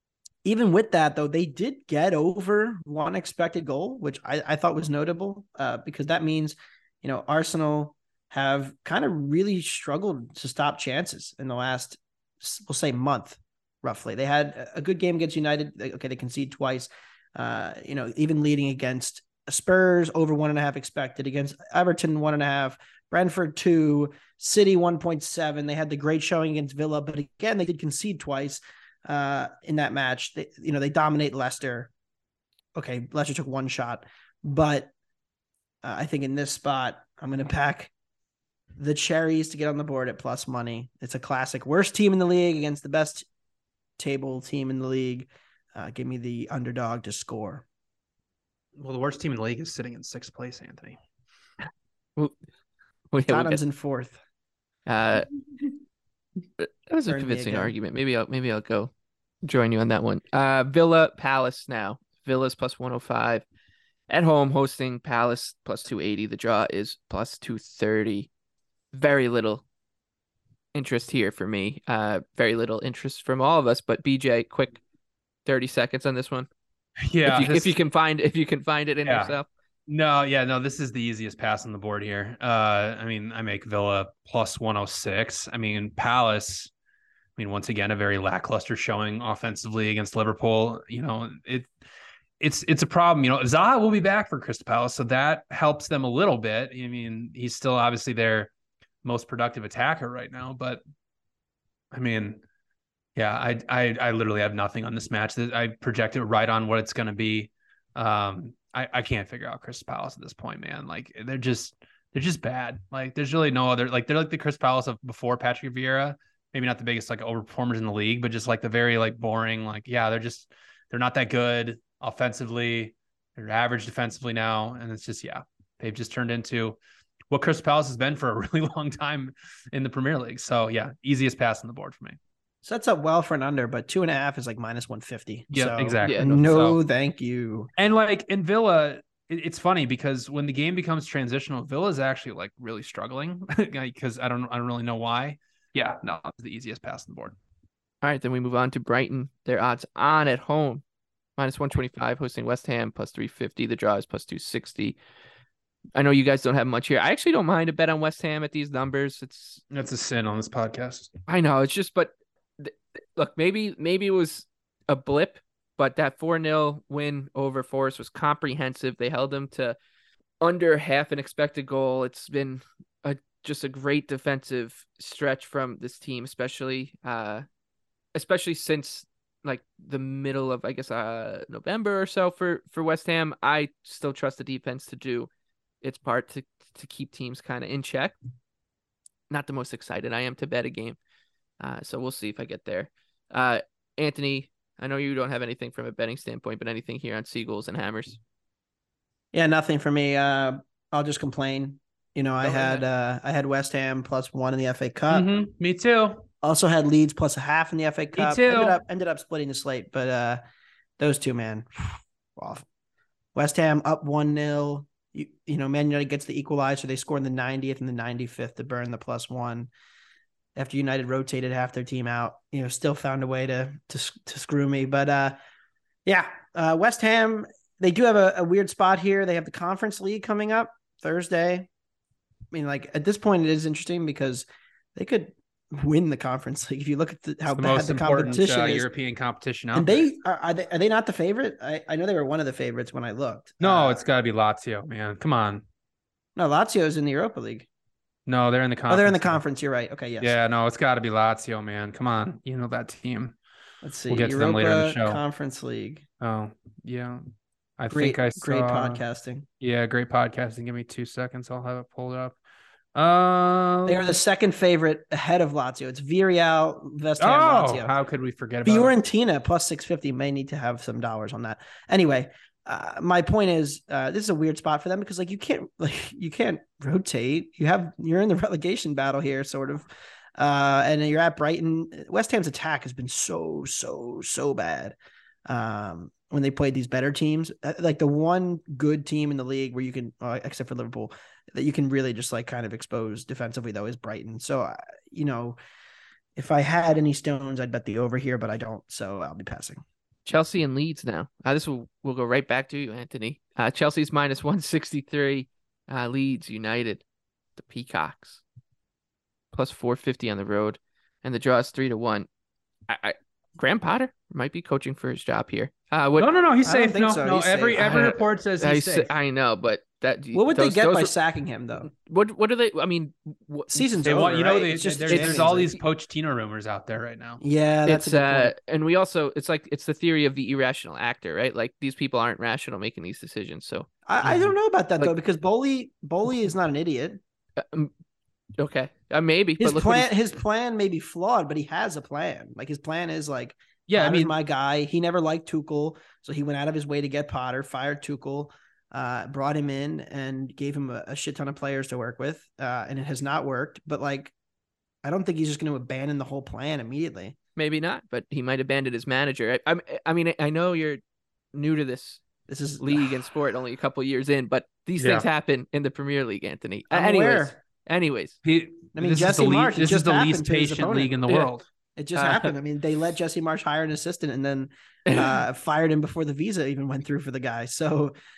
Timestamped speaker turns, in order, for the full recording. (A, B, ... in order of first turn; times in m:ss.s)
0:00.4-0:31.9 A
0:32.7-0:34.9 A
0:35.8-0:37.9 A
0:38.8-0:43.2 A
0:44.0-0:47.6 A
0:48.8-0:51.0 B
0:53.1-0:53.6 C
0:53.2-0:54.2 A
0:54.8-0:55.3 C
0:56.6-0:58.9 C
0:57.1-0:57.7 A
0:59.4-1:03.4 C
1:04.1-1:08.3 C
1:08.9-1:09.6 C
1:10.7-1:14.8 C
1:15.4-1:16.5 C
1:17.0-1:17.7 B
1:17.2-1:19.5 C
1:19.0-1:19.4 B
1:19.9-1:26.7 B
1:27.4-1:31.7 B
1:32.4-1:38.5 B
1:39.0-1:40.8 B
1:41.9-1:42.4 B
1:43.2-2:06.8 B
2:07.3-2:12.2 B
2:12.6-2:17.7 A
2:15.5-2:16.8 B
2:17.8-2:27.4 B
2:28.0-2:30.8 C
2:31.4-2:35.0 C
2:35.9-2:39.6 C
2:39.7-2:41.1 B
2:41.3-2:49.8 C
2:50.4-2:57.4 C
2:58.1-3:05.3 C
3:05.8-3:08.2 C
3:09.3-3:11.0 C
3:11.6-3:18.2 C
3:19.3-3:25.3 A
3:22.5-3:22.8 B
3:25.1-3:26.2 B
3:26.4-3:30.4 A
3:28.2-3:28.8 B
3:31.0-3:32.6 A
3:33.3-3:39.7 A
3:40.6-3:45.4 A
3:46.0-3:51.7 A
3:52.5-3:54.4 A
3:55.0-3:58.9 A
3:57.5-4:00.0 B
3:59.7-4:04.0 A
4:03.6-4:05.6 B
4:06.4-4:07.7 A
4:08.3-4:09.4 B
4:08.9-4:10.3 A
4:10.2-4:13.3 B
4:13.8-4:16.0 A
4:14.1-4:15.2 B
4:16.2-4:17.2 B
4:17.8-4:19.0 B
4:17.9-4:19.4 A
4:19.6-4:22.4 B
4:22.9-4:24.2 B
4:23.8-4:27.9 A
4:27.2-4:28.9 B
4:28.6-4:55.6 A
4:56.4-4:59.8 A
5:00.2-5:07.0 C
5:07.6-5:08.4 C
5:09.5-5:12.3 C
5:12.9-5:16.3 C
5:16.2-5:19.1 B
5:16.6-5:18.2 A
5:17.8-5:21.1 C
5:20.3-5:21.9 A
5:21.9-5:24.2 C
5:23.7-5:25.7 A
5:24.0-5:27.4 B
5:25.1-5:25.8 C
5:27.4-5:28.5 A
5:27.8-5:33.9 C
5:34.0-5:37.2 A
5:37.6-5:37.9 C
5:38.6-5:40.1 C
5:39.6-5:54.3 A
5:43.9-5:44.3 B
5:55.0-5:57.4 A
5:57.6-6:01.0 C
6:01.5-6:02.2 C
6:02.5-6:03.3 A
6:02.8-6:08.4 C
6:05.0-6:05.2 B
6:06.9-6:07.5 A
6:08.4-6:11.6 B
6:08.9-6:11.2 A
6:12.0-6:18.1 A
6:12.2-6:12.5 C
6:15.1-6:15.4 C